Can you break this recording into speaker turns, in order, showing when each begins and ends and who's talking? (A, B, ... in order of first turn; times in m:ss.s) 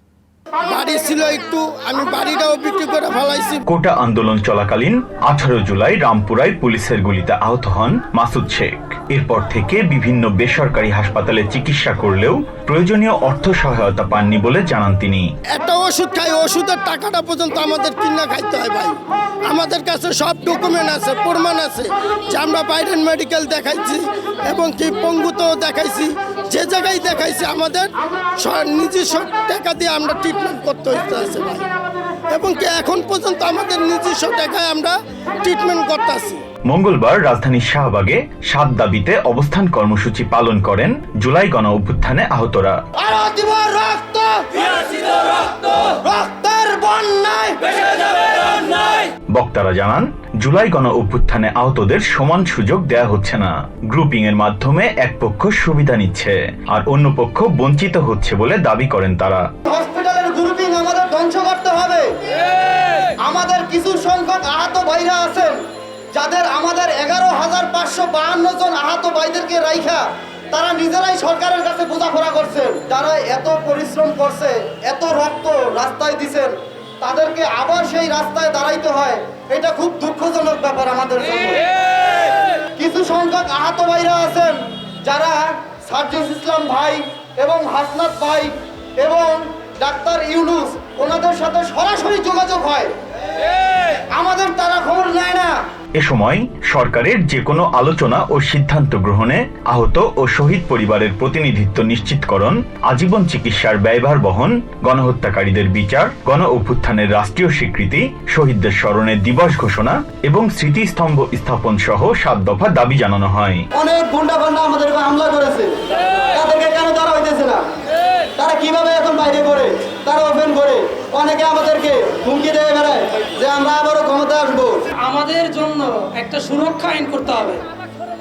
0:00.6-0:03.6 A
0:03.7-0:15.3 B
0:15.5-0:31.6 A
0:32.3-0:36.4 A
0:36.7-0:42.8 B
0:43.0-0:49.0 C
0:49.3-0:59.4 B
0:59.6-1:02.1 C
1:03.2-1:05.6 C
1:06.2-1:21.6 C
1:22.8-1:32.9 C
1:34.1-1:35.6 C
1:36.0-1:53.6 B
1:53.7-1:55.7 C
1:56.3-1:57.6 C
1:58.4-2:04.8 C
2:05.0-2:07.6 D